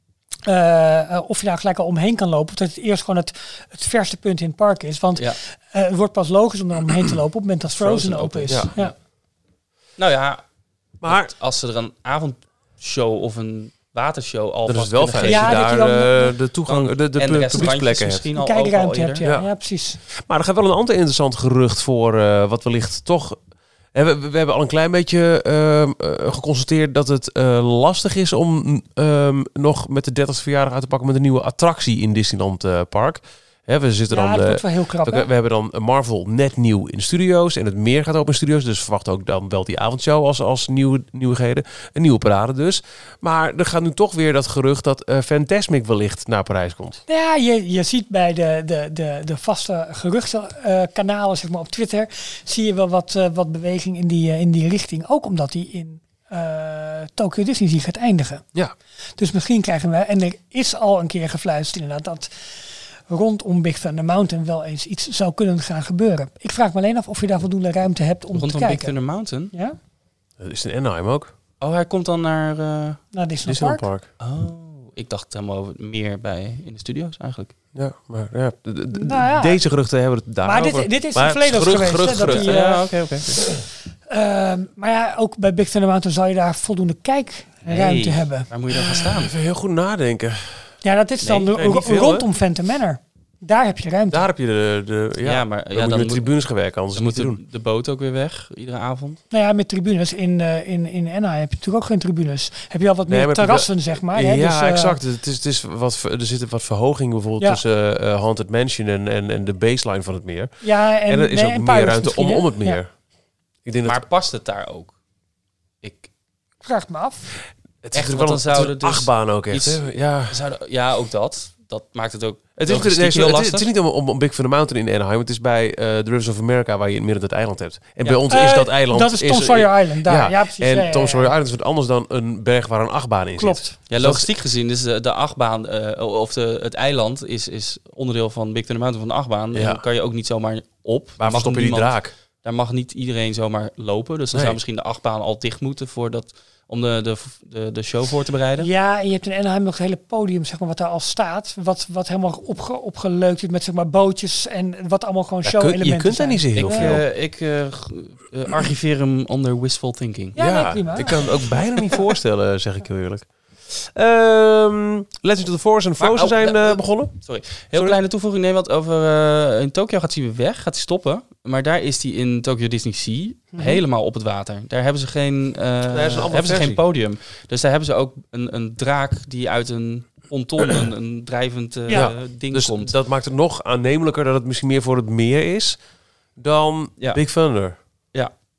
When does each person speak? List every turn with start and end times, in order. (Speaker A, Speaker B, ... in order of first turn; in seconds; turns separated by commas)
Speaker A: 0.4-8.9, Speaker B: 7.7-8.9, Speaker B: 10.0-10.4, Speaker B: 11.0-15.7, Speaker C: 11.0-11.3, Speaker C: 14.7-18.2, Speaker A: 15.2-16.3, Speaker B: 16.7-19.2, Speaker A: 18.3-20.0, Speaker C: 19.2-19.5, Speaker C: 20.1-23.4, Speaker C: 23.9-47.0, Speaker A: 34.1-35.3, Speaker A: 47.1-58.4, Speaker A: 59.2-62.5, Speaker A: 63.1-69.0, Speaker B: 68.3-69.5, Speaker C: 70.4-71.3, Speaker B: 71.6-73.0, Speaker A: 73.1-73.9, Speaker C: 73.5-74.1, Speaker B: 74.2-77.5, Speaker C: 77.7-83.5, Speaker A: 78.9-79.6, Speaker A: 80.4-82.8, Speaker B: 82.2-83.3, Speaker A: 84.1-88.5, Speaker B: 87.7-89.3, Speaker C: 88.7-90.7, Speaker A: 90.8-94.2, Speaker B: 91.2-91.5, Speaker C: 91.5-92.2, Speaker C: 94.1-97.4, Speaker B: 95.2-96.3, Speaker B: 96.9-99.2, Speaker A: 99.3-105.0, Speaker C: 103.1-112.9, Speaker A: 110.6-112.8, Speaker C: 113.6-114.0, Speaker B: 113.8-115.0, Speaker B: 115.8-116.1, Speaker A: 116.6-117.3, Speaker C: 117.8-120.4, Speaker B: 117.9-123.7, Speaker C: 122.6-134.3, Speaker A: 128.3-131.3, Speaker A: 133.4-133.8, Speaker B: 133.9-148.7, Speaker C: 139.5-139.8, Speaker C: 141.2-142.1, Speaker C: 144.3-144.6, Speaker A: 148.6-156.9, Speaker C: 155.4-157.0, Speaker B: 156.6-160.4, Speaker A: 160.3-161.6, Speaker C: 160.4-167.2, Speaker B: 166.0-182.9, Speaker A: 173.5-173.8, Speaker C: 175.8-176.8, Speaker C: 181.9-185.8, Speaker C: 186.3-187.8